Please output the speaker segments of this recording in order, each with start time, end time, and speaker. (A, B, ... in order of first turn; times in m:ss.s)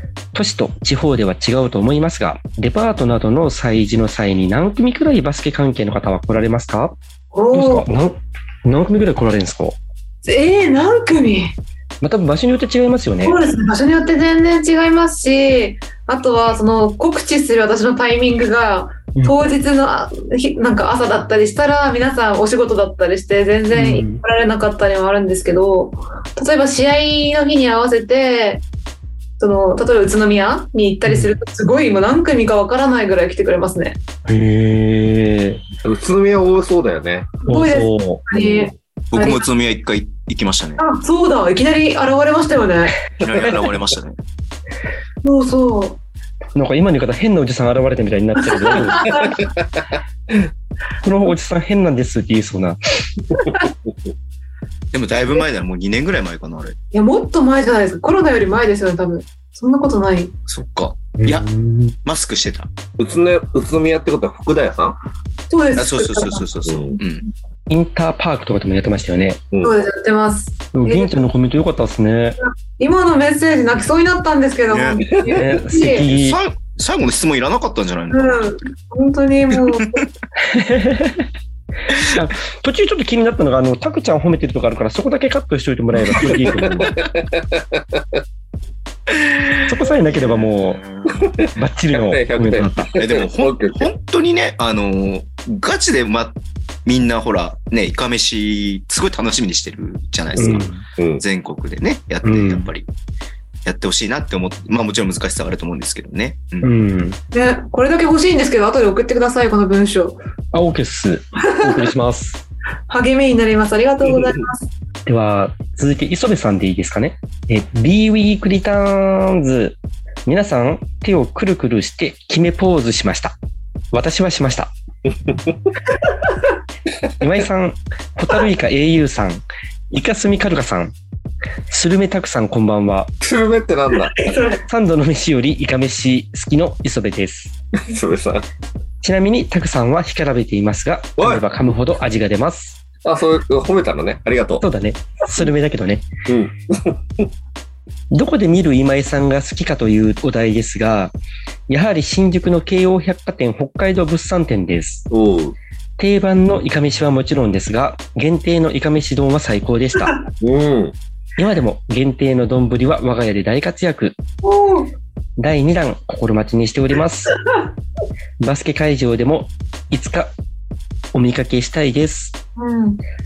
0:00.3-0:06.9 A
0:07.3-0:07.9 B
0:07.5-0:09.8 A
0:10.2-0:11.6 B
0:12.0-0:13.4 A
0:13.2-0:28.6 B
0:23.7-0:24.2 A
0:29.4-0:34.0 B
0:31.0-0:31.3 A
0:34.3-0:35.6 A
0:35.8-0:37.3 C
0:37.4-0:39.4 B
0:37.5-0:38.2 A
0:38.3-0:38.7 C
0:39.1-0:40.8 D
0:40.8-0:42.9 B
0:43.2-0:44.2 D
0:43.3-0:43.6 C
0:45.2-0:46.0 B
0:46.5-0:49.2 A
0:48.5-0:49.4 B
0:49.1-0:50.4 C
0:51.0-0:52.8 A
0:54.9-0:56.8 D
0:56.9-1:00.3 B
1:00.5-1:01.4 D
1:01.2-1:02.0 A
1:02.0-1:02.7 D
1:03.0-1:05.0 C
1:05.5-1:06.4 B
1:05.7-1:07.3 D
1:06.6-1:07.0 C
1:07.7-1:09.4 A
1:09.6-1:11.2 B
1:10.7-1:12.4 A
1:12.4-1:16.1 B
1:14.7-1:15.0 D
1:15.1-1:15.6 C
1:15.3-1:16.4 A
1:16.0-1:18.5 D
1:18.1-1:20.0 B
1:19.5-1:20.0 D
1:20.4-1:21.3 A
1:22.0-1:27.0 A
1:26.1-1:28.2 C
1:29.6-1:30.8 A
1:30.4-1:31.3 D
1:31.1-1:33.9 C
1:31.5-1:32.9 A
1:33.0-1:42.9 D
1:40.3-1:40.8 A
1:40.3-1:41.2 C
1:42.2-1:42.7 A
1:43.6-1:46.7 D
1:46.6-1:47.2 A
1:47.3-1:50.2 B
1:50.5-1:52.4 A
1:51.4-1:51.9 B
1:52.9-1:54.7 B
1:55.0-2:03.3 A
2:03.9-2:04.7 A
2:05.1-2:05.7 C
2:07.2-2:10.9 A
2:11.7-2:13.1 A
2:13.2-2:14.2 C
2:14.1-2:14.6 B
2:14.7-2:17.6 A
2:17.8-2:18.5 C
2:19.0-2:22.8 A
2:21.2-2:21.4 C
2:23.0-2:24.6 C
2:24.6-2:26.0 A
2:26.3-2:27.3 C
2:28.1-2:31.1 A
2:31.7-2:35.1 A
2:35.1-2:35.6 C
2:36.0-2:40.2 A
2:40.4-2:41.0 C
2:41.4-2:44.2 A
2:44.4-2:44.9 B
2:45.4-2:47.3 A
2:48.4-2:50.3 A
2:51.1-2:52.4 A
2:52.6-2:53.0 B